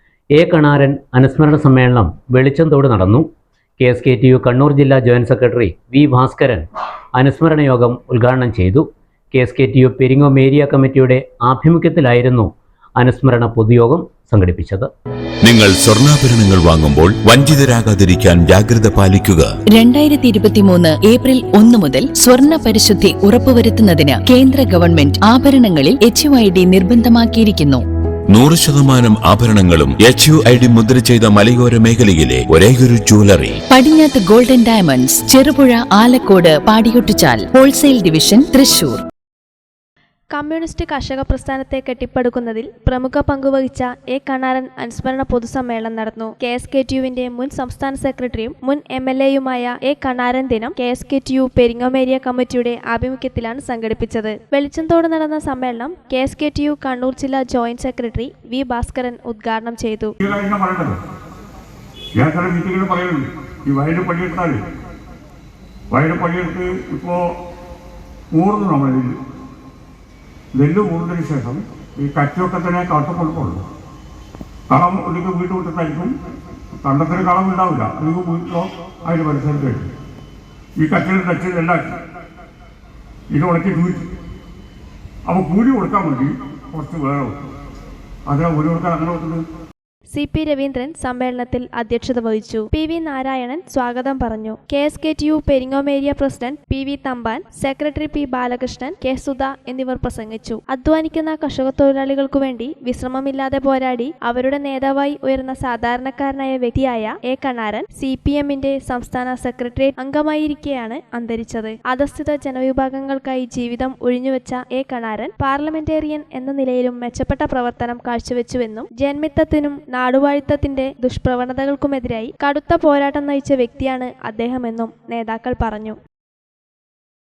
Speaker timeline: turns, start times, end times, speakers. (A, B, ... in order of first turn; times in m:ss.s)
0:00.4-0:03.2 A
0:03.8-0:06.6 A
0:07.2-0:14.9 A
0:15.4-0:19.5 B
0:19.7-0:27.8 C
0:28.3-0:33.6 B
0:33.7-0:39.0 C
0:40.3-1:00.1 D
1:00.2-1:01.0 E
1:02.2-1:04.6 E
1:05.9-1:07.2 E
1:08.3-1:09.2 E
1:10.6-1:13.6 E
1:14.7-1:16.1 E
1:16.8-1:19.9 E
1:20.8-1:22.0 E
1:23.3-1:24.1 E
1:25.3-1:27.3 E
1:28.3-1:29.4 E
1:30.1-2:06.0 D